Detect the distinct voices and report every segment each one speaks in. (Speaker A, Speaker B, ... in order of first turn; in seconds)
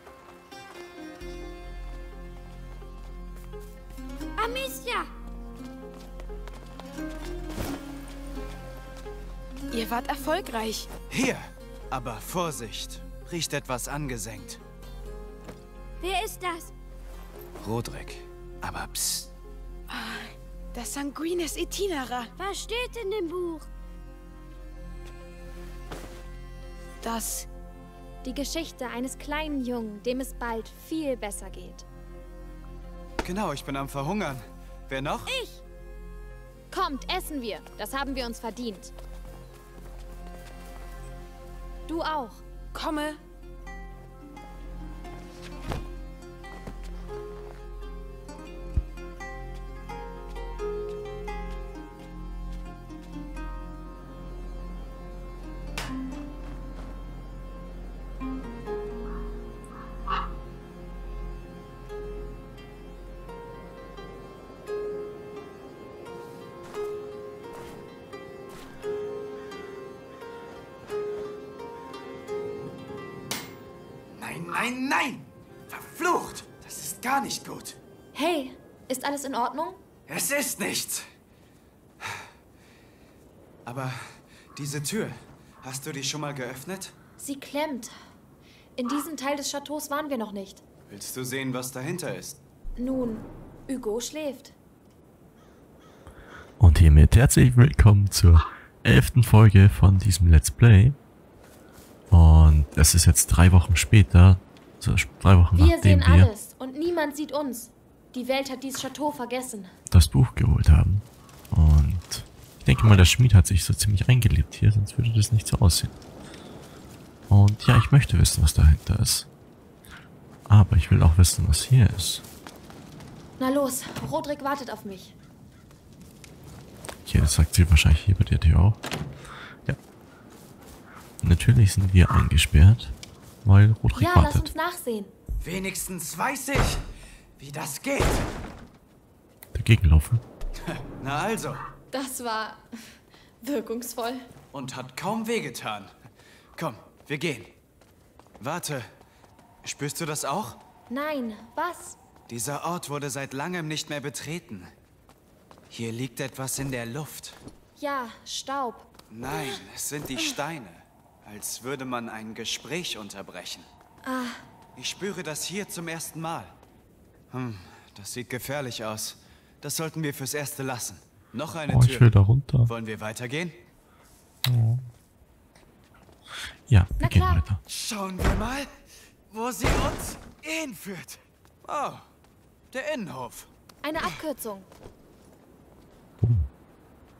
Speaker A: 4.4-5.1, 16.0-16.7, 22.4-23.7
Speaker B: 9.7-10.9, 19.9-22.3, 27.0-27.5, 42.7-43.2
Speaker C: 11.1-14.6, 17.6-19.3, 33.2-35.3, 74.1-77.8, 80.1-81.1, 83.6-86.9, 90.9-92.4, 135.4-136.8, 137.4-138.3, 140.6-141.6, 144.5-145.9, 146.6-147.5, 148.4-148.9, 149.6-150.6, 152.3-154.7, 155.7-157.4, 159.1-163.7, 164.8-166.6, 167.3-172.1, 172.7-173.6, 177.7-182.1, 182.7-183.5
Speaker D: 28.2-31.8, 35.2-35.6, 36.7-38.9, 41.9-42.4, 78.1-79.8, 87.2-87.9, 88.8-90.6, 92.8-94.5, 105.5-109.7, 123.4-125.1, 133.9-135.1, 141.9-142.6, 143.4-144.3, 150.9-152.0, 157.8-158.9, 164.0-164.4, 177.0-177.4, 183.8-184.7
Speaker E: 96.6-101.0, 102.1-106.3, 109.9-115.9, 117.3-119.3, 120.5-122.2, 127.0-128.8, 131.2-134.5, 139.5-140.2, 171.7-172.7, 174.4-174.8, 176.7-177.6, 186.2-186.5